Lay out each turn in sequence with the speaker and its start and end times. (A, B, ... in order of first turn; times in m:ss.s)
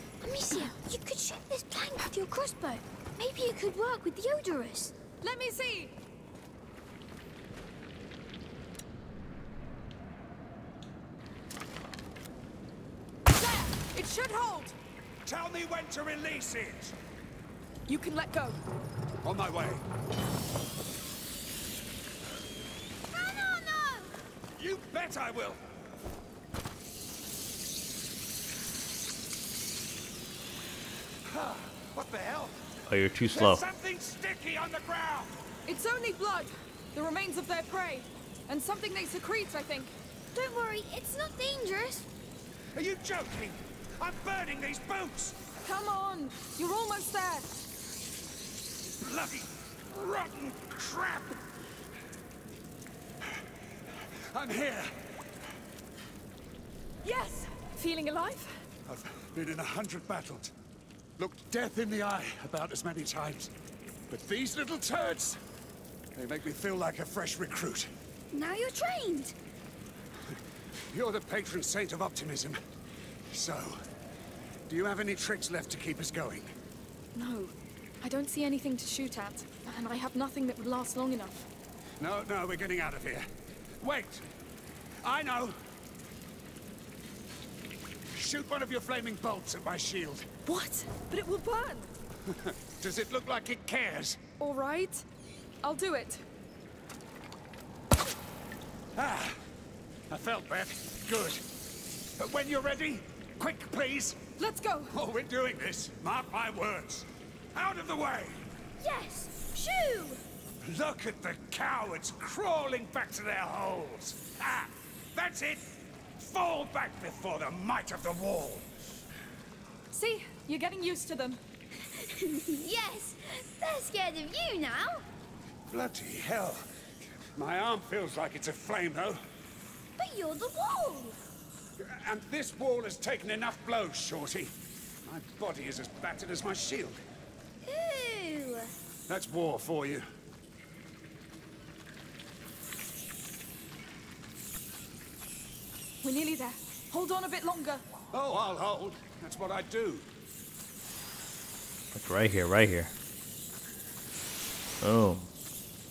0:00.2-0:04.9 A
0:05.2-0:05.9 B
0:13.3-0:14.8 B
0:15.2-0:17.0 C
0:17.9-0:18.6 B
0:19.2-0:19.8 C
0:23.1-0:24.2 A
0:24.6-0:25.6 C
0:31.2-0:32.6 C
0:32.9-0:33.6 D
0:33.3-0:35.4 C
0:35.6-0:39.9 B
0:40.3-0:42.1 A
0:42.7-0:45.4 C
0:45.6-0:47.5 B
0:49.0-0:51.4 C
0:53.2-0:55.1 C
0:57.0-0:58.6 B
0:58.8-1:00.5 C
1:01.2-1:03.5 C
1:04.1-1:05.4 C
1:06.1-1:07.9 C
1:08.3-1:09.3 A
1:10.9-1:12.6 C
1:13.3-1:13.8 C
1:14.7-1:16.5 C
1:17.1-1:21.5 B
1:22.0-1:23.3 C
1:23.8-1:24.2 C
1:25.0-1:25.6 C
1:28.1-1:30.3 C
1:30.4-1:31.9 B
1:32.2-1:34.2 C
1:34.4-1:35.0 B
1:35.6-1:36.2 B
1:39.0-1:39.4 C
1:40.1-1:41.4 C
1:42.2-1:44.2 C
1:44.4-1:44.9 B
1:44.9-1:48.4 C
1:48.8-1:50.2 A
1:50.6-1:58.7 C
1:59.9-2:01.4 B
2:01.8-2:05.0 A
2:05.7-2:06.7 C
2:07.4-2:09.2 C
2:10.0-2:11.2 A
2:11.8-2:17.0 C
2:17.6-2:18.7 A
2:19.1-2:20.0 C
2:26.0-2:27.8 B
2:28.1-2:30.1 C
2:31.9-2:32.9 D
2:34.8-2:35.3 D